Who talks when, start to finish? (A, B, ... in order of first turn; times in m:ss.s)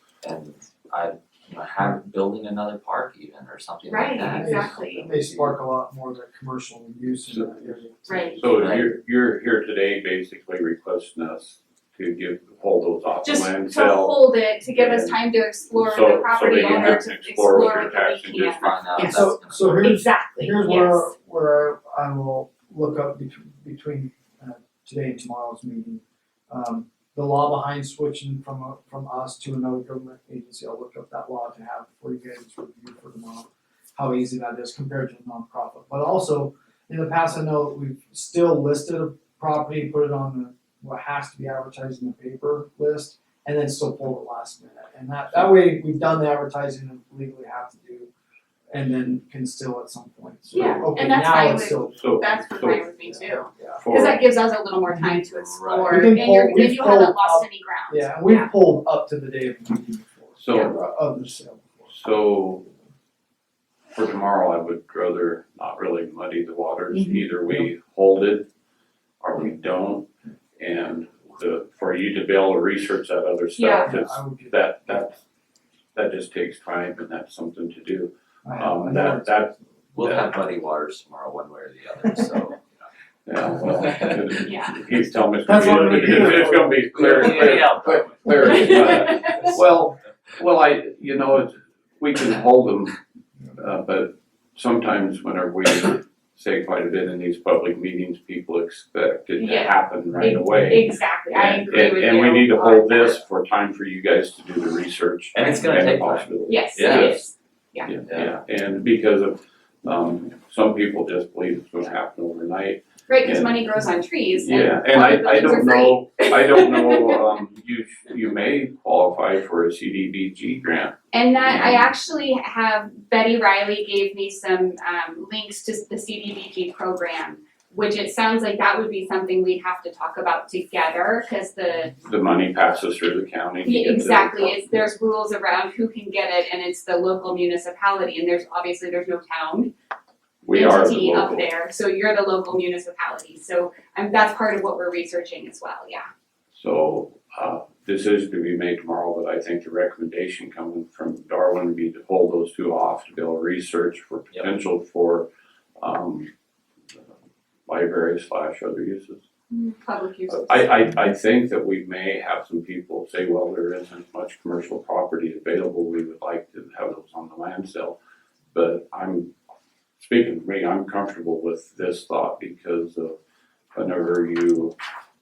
0:00.2-0:05.6 A
0:03.8-0:05.1 B
0:04.3-0:08.6 C
0:07.3-0:07.8 D
0:08.1-0:08.4 B
0:08.4-0:19.1 D
0:08.4-0:08.9 A
0:13.2-0:21.1 B
0:18.6-0:19.9 A
0:19.0-0:48.1 C
0:48.7-0:52.3 C
0:50.5-0:58.5 B
0:52.0-0:52.9 D
0:53.1-0:53.8 C
0:53.8-0:54.2 D
0:54.9-0:55.2 C
0:55.2-0:56.1 A
0:55.9-1:02.0 C
1:00.4-1:00.8 D
1:01.9-1:02.7 D
1:03.9-1:08.5 D
1:06.9-1:07.2 B
1:07.4-1:07.7 C
1:09.2-1:15.2 D
1:13.6-1:13.9 B
1:13.8-1:15.0 C
1:15.9-1:20.3 D
1:18.4-1:19.6 C
1:20.0-1:22.6 A
1:23.3-1:33.0 D
1:24.4-1:24.8 B
1:25.4-1:27.6 C
1:25.8-1:26.2 A
1:27.0-1:28.9 A
1:28.3-1:29.1 C
1:28.5-1:29.3 B
1:33.6-1:47.3 D
1:39.4-1:43.2 B
1:41.3-1:41.6 A
1:45.3-1:47.2 A
1:46.5-1:47.9 B
1:47.8-1:53.6 D
1:48.1-1:48.3 A
1:53.1-1:57.2 B
1:54.4-2:01.9 D
2:01.1-2:12.0 B
2:12.0-2:14.6 D
2:13.6-2:19.7 B
2:20.4-2:21.5 D
2:20.5-2:26.0 B
2:26.5-2:35.3 D
2:35.8-2:36.3 D
2:37.7-2:39.2 D
2:39.5-2:40.9 B
2:40.3-2:48.0 D
2:48.5-2:49.3 D
2:50.0-2:53.2 D
2:53.7-2:54.7 D